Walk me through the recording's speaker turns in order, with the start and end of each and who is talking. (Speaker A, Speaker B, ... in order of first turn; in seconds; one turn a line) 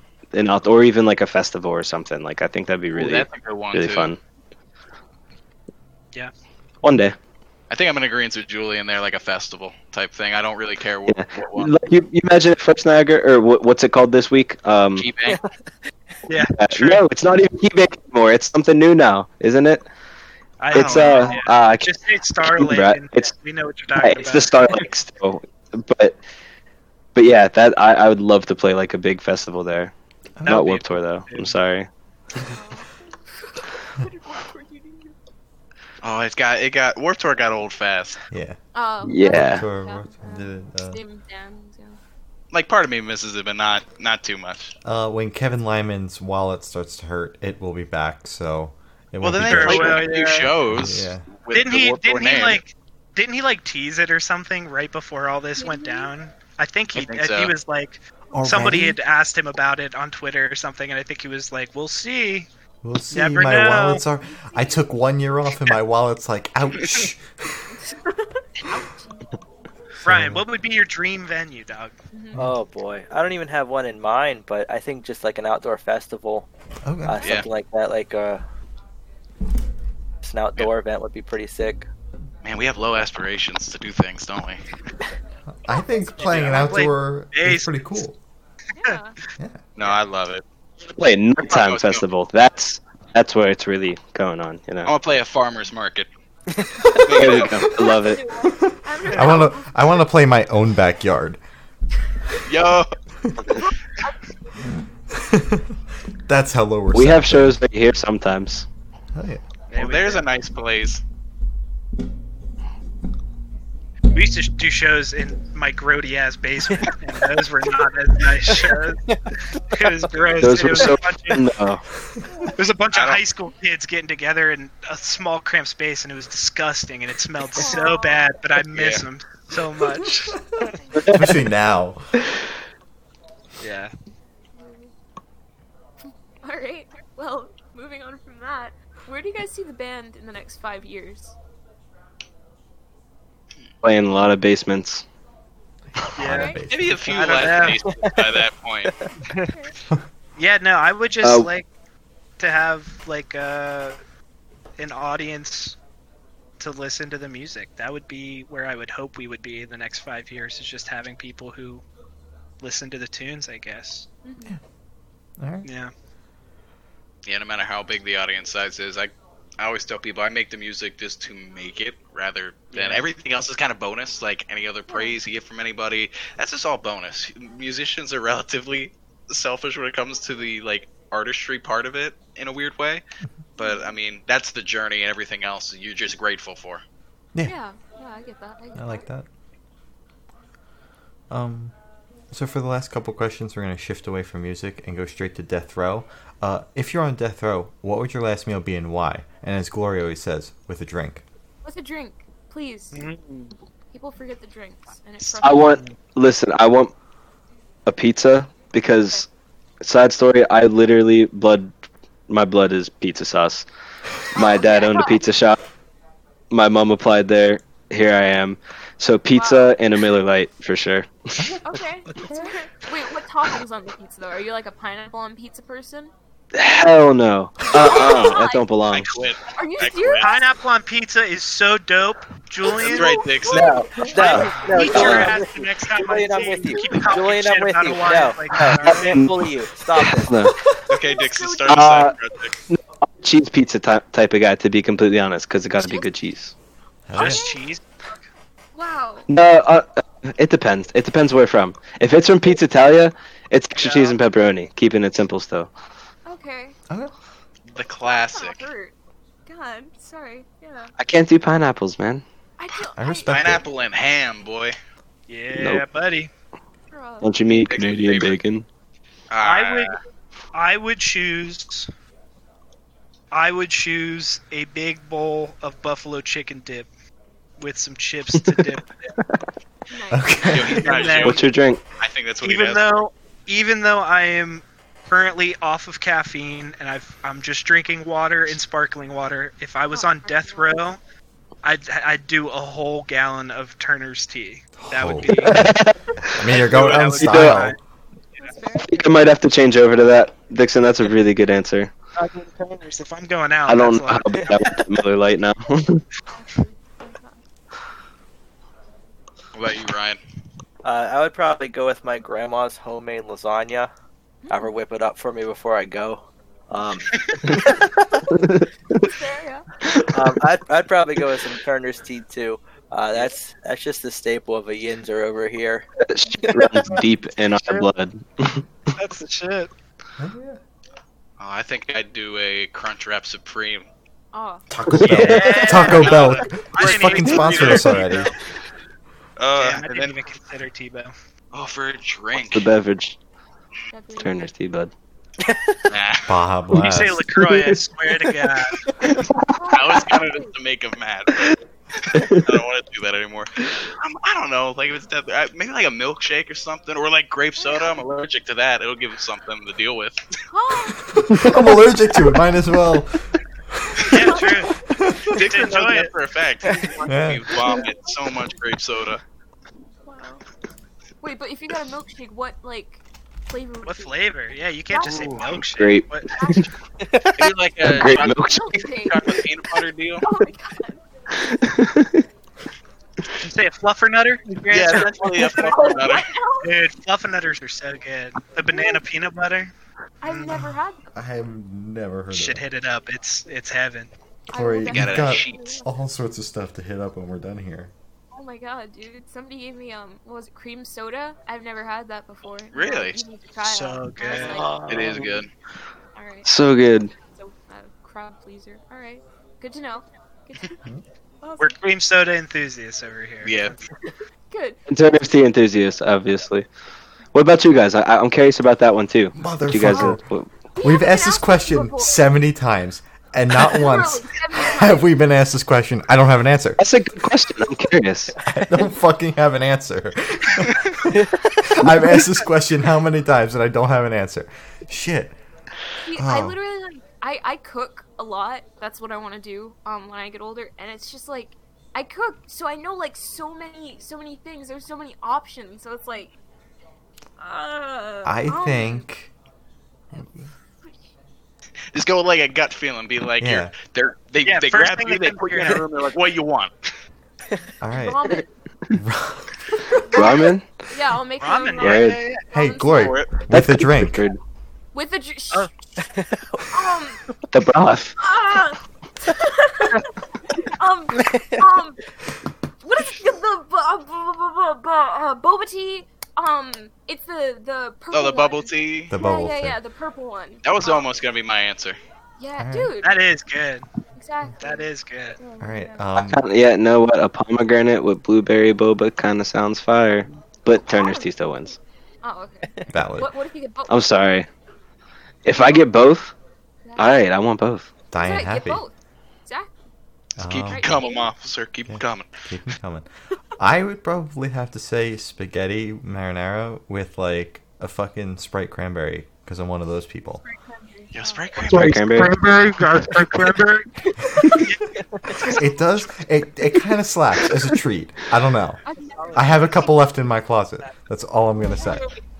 Speaker A: 0.3-4.2
Speaker B: 2.9-4.1
Speaker A: 6.8-7.2
Speaker B: 7.7-11.7
Speaker A: 11.1-15.1
Speaker B: 14.9-15.4
Speaker C: 16.3-17.0
Speaker A: 16.4-19.8
Speaker C: 20.6-24.8
Speaker A: 20.7-23.3
Speaker B: 20.7-21.4
Speaker A: 23.9-26.2
Speaker A: 27.1-29.9
Speaker D: 30.4-30.7
Speaker C: 30.4-31.6
Speaker A: 30.4-31.9
Speaker E: 32.5-35.1
Speaker B: 36.0-38.2
Speaker D: 38.3-38.6
Speaker E: 38.7-42.0
Speaker A: 39.0-39.6
Speaker D: 39.2-41.0
Speaker B: 42.5-44.7
Speaker D: 44.8-50.1
Speaker B: 49.2-52.6
Speaker C: 49.4-50.5
Speaker D: 50.7-51.2
Speaker C: 51.5-62.5
Speaker E: 55.6-56.1
Speaker B: 57.0-57.5
Speaker D: 58.3-59.0
Speaker D: 62.8-67.6
Speaker C: 63.1-64.0
Speaker E: 64.3-64.8
Speaker E: 67.7-69.2
Speaker C: 70.0-71.9
Speaker D: 70.0-70.4
Speaker E: 72.1-72.4
Speaker F: 72.3-76.5
Speaker D: 76.8-77.3
Speaker F: 77.0-78.4
Speaker B: 77.2-77.5
Speaker F: 80.2-81.8
Speaker B: 82.4-84.6
Speaker D: 85.5-88.2
Speaker C: 86.2-88.0
Speaker E: 88.8-89.2
Speaker B: 89.8-90.4
Speaker A: 90.8-94.9
Speaker B: 91.4-92.0
Speaker B: 94.8-96.1
Speaker B: 96.9-97.7
Speaker A: 97.1-98.2
Speaker E: 97.7-100.0
Speaker D: 99.1-101.4
Speaker C: 99.1-99.4
Speaker B: 102.4-102.9
Speaker D: 104.6-107.6
Speaker A: 106.9-108.7
Speaker D: 109.1-109.4
Speaker C: 109.7-110.3
Speaker B: 109.7-111.0
Speaker C: 114.1-121.5
Speaker B: 120.2-120.5
Speaker A: 120.4-121.8
Speaker C: 122.5-130.7
Speaker B: 122.9-123.2
Speaker E: 127.5-128.3
Speaker B: 128.7-129.0
Speaker E: 130.8-131.3
Speaker A: 130.9-131.3
Speaker D: 131.1-132.1
Speaker C: 133.6-133.9
Speaker E: 134.5-134.9
Speaker E: 136.4-141.3
Speaker A: 143.8-145.0
Speaker D: 146.1-147.5
Speaker E: 146.2-146.6
Speaker C: 146.2-147.8
Speaker B: 146.7-148.9
Speaker F: 147.9-149.1
Speaker C: 149.2-149.5
Speaker E: 149.5-149.7
Speaker C: 150.3-151.7
Speaker A: 151.2-151.5
Speaker C: 152.4-154.0
Speaker C: 154.8-155.8
Speaker C: 156.6-161.8
Speaker C: 162.6-164.1
Speaker E: 164.2-164.6
Speaker D: 165.4-165.7
Speaker C: 165.6-165.9
Speaker B: 167.2-183.0
Speaker C: 172.7-173.1
Speaker E: 174.9-175.2
Speaker B: 183.6-186.8
Speaker E: 183.6-183.9
Speaker E: 187.4-189.1
Speaker D: 188.7-189.3
Speaker D: 191.3-191.7
Speaker D: 192.3-201.2
Speaker E: 201.6-203.0
Speaker C: 202.9-203.5
Speaker E: 203.9-205.8
Speaker A: 205.4-206.9
Speaker A: 207.8-209.3
Speaker A: 209.8-211.7
Speaker A: 212.3-213.7
Speaker E: 214.3-215.2
Speaker A: 214.3-215.6
Speaker A: 216.5-221.5
Speaker E: 219.3-219.7
Speaker E: 221.6-226.1
Speaker D: 222.2-222.5
Speaker A: 226.5-229.2
Speaker E: 227.7-228.6
Speaker B: 227.9-228.4
Speaker B: 228.9-230.3
Speaker E: 229.5-230.4
Speaker C: 230.2-239.1
Speaker E: 232.7-235.2
Speaker B: 232.7-233.8
Speaker F: 233.5-240.3
Speaker A: 233.5-235.3
Speaker A: 238.5-240.7
Speaker B: 240.9-242.6
Speaker E: 240.9-242.1
Speaker A: 241.7-242.1
Speaker A: 242.7-246.5
Speaker E: 245.8-246.1
Speaker D: 247.1-247.4
Speaker C: 247.1-247.8
Speaker E: 247.2-247.6
Speaker E: 248.7-249.3
Speaker A: 249.3-255.7
Speaker C: 253.8-254.2
Speaker E: 256.2-256.8
Speaker B: 257.7-258.7
Speaker E: 258.0-258.9
Speaker E: 259.4-260.9
Speaker A: 261.0-262.2
Speaker E: 262.6-263.6
Speaker D: 262.9-263.6
Speaker B: 263.3-264.8
Speaker C: 265.3-266.3
Speaker A: 265.5-265.8
Speaker E: 266.9-267.3
Speaker A: 267.2-268.6
Speaker B: 267.5-268.4
Speaker B: 269.3-269.9
Speaker C: 269.4-270.0
Speaker C: 270.5-271.9
Speaker C: 273.3-276.9
Speaker C: 277.6-279.1
Speaker E: 279.9-280.6
Speaker D: 280.1-280.8
Speaker B: 280.4-281.4
Speaker C: 280.7-281.4
Speaker A: 281.2-281.8
Speaker B: 282.0-283.0
Speaker C: 282.4-291.0
Speaker E: 289.9-290.8
Speaker C: 291.6-295.7
Speaker D: 294.8-297.8
Speaker A: 295.4-297.7
Speaker C: 296.5-297.8
Speaker B: 296.7-297.0
Speaker E: 298.4-299.1
Speaker A: 298.8-301.9
Speaker C: 302.2-304.9
Speaker A: 303.7-306.0
Speaker E: 306.3-307.4
Speaker B: 309.5-310.2
Speaker F: 310.8-313.9
Speaker E: 314.4-314.7
Speaker F: 314.5-317.8
Speaker A: 318.3-319.1
Speaker E: 318.9-319.7
Speaker A: 319.8-320.3
Speaker F: 320.1-325.9
Speaker A: 326.0-328.6
Speaker F: 326.5-327.0
Speaker C: 327.6-327.9
Speaker C: 328.9-329.7
Speaker D: 330.2-330.6
Speaker B: 331.4-333.9
Speaker E: 334.3-334.7
Speaker D: 334.7-338.3
Speaker C: 334.9-338.4
Speaker B: 335.8-337.9
Speaker B: 339.4-340.2
Speaker C: 339.5-341.1
Speaker B: 341.5-342.7
Speaker A: 342.4-343.2
Speaker E: 343.9-344.5
Speaker A: 344.2-344.9
Speaker F: 345.4-345.8
Speaker B: 345.9-346.3
Speaker D: 346.3-347.2
Speaker C: 346.7-348.8
Speaker A: 347.3-348.3
Speaker A: 349.0-349.6
Speaker E: 349.5-350.5
Speaker B: 349.7-360.2
Speaker A: 352.1-352.5
Speaker E: 357.6-358.0
Speaker E: 360.5-361.8
Speaker D: 361.0-365.3
Speaker E: 363.9-364.7
Speaker C: 364.0-364.8
Speaker B: 365.3-369.2
Speaker C: 365.3-366.1
Speaker F: 366.6-367.0
Speaker D: 367.0-367.6
Speaker E: 367.6-368.1
Speaker E: 370.1-370.4
Speaker E: 371.2-374.2
Speaker C: 373.8-376.6
Speaker E: 374.9-375.4
Speaker A: 375.4-376.7
Speaker E: 376.3-376.7
Speaker F: 377.0-377.5
Speaker B: 377.4-380.2
Speaker A: 377.8-379.4
Speaker E: 378.0-379.3
Speaker E: 380.2-381.0
Speaker A: 381.4-382.2
Speaker C: 383.3-385.9
Speaker B: 384.7-386.3
Speaker E: 385.4-386.8
Speaker C: 386.6-389.7
Speaker E: 388.7-389.0
Speaker E: 390.2-391.1
Speaker C: 390.2-390.6
Speaker D: 391.1-392.6
Speaker C: 392.3-394.1
Speaker D: 394.5-397.9
Speaker E: 394.5-395.9
Speaker B: 394.9-395.6
Speaker E: 398.3-405.2
Speaker B: 402.7-403.2
Speaker C: 403.6-404.6
Speaker F: 404.5-405.3
Speaker A: 404.6-405.3
Speaker B: 404.9-405.5
Speaker E: 406.1-406.5
Speaker A: 406.4-407.1
Speaker E: 407.1-410.8
Speaker E: 411.4-411.8
Speaker C: 411.6-413.8
Speaker B: 413.4-413.8
Speaker E: 414.5-414.8
Speaker A: 414.9-416.7
Speaker A: 417.3-420.5
Speaker D: 419.3-420.2
Speaker E: 420.7-422.2
Speaker D: 420.8-426.8
Speaker E: 423.6-425.2
Speaker A: 426.8-428.4
Speaker D: 428.4-435.4
Speaker F: 431.1-431.5
Speaker E: 436.0-446.3
Speaker D: 436.1-436.6
Speaker E: 447.4-449.0
Speaker D: 448.2-449.3
Speaker D: 450.1-450.5
Speaker B: 451.9-456.7
Speaker D: 453.4-453.7
Speaker C: 454.4-455.9
Speaker D: 457.8-458.4
Speaker E: 457.9-458.5
Speaker D: 458.9-459.5
Speaker E: 460.1-463.2
Speaker A: 460.1-460.7
Speaker C: 461.4-462.4
Speaker A: 461.8-462.2
Speaker D: 462.5-464.2
Speaker B: 462.9-463.4
Speaker A: 463.5-464.4
Speaker E: 464.9-466.0
Speaker F: 466.0-466.7
Speaker E: 466.6-467.2
Speaker A: 467.5-468.2
Speaker E: 468.2-472.0
Speaker F: 471.2-471.6
Speaker E: 472.8-481.1
Speaker B: 478.1-479.2
Speaker D: 479.1-479.8
Speaker B: 480.6-482.0
Speaker E: 482.4-483.2
Speaker D: 482.6-482.9
Speaker C: 483.0-483.9
Speaker E: 484.1-486.0
Speaker C: 484.6-485.4
Speaker D: 485.6-486.4
Speaker A: 486.2-491.8
Speaker E: 490.7-491.3
Speaker E: 492.2-493.9
Speaker D: 492.9-493.3
Speaker A: 493.9-494.5
Speaker A: 495.4-496.3
Speaker E: 495.5-495.9
Speaker E: 496.9-497.2
Speaker A: 497.0-497.9
Speaker D: 498.1-498.8
Speaker E: 498.2-498.9
Speaker E: 499.4-499.8
Speaker B: 500.4-502.3
Speaker D: 500.4-501.0
Speaker E: 500.6-501.3
Speaker D: 501.9-503.0
Speaker D: 503.6-510.4
Speaker E: 510.4-511.7
Speaker B: 511.1-512.2
Speaker A: 511.7-512.4
Speaker C: 511.7-513.9
Speaker E: 514.3-514.6
Speaker C: 514.6-515.7
Speaker D: 515.5-518.8
Speaker E: 518.8-520.0
Speaker C: 519.1-519.7
Speaker D: 519.3-522.1
Speaker E: 521.7-522.1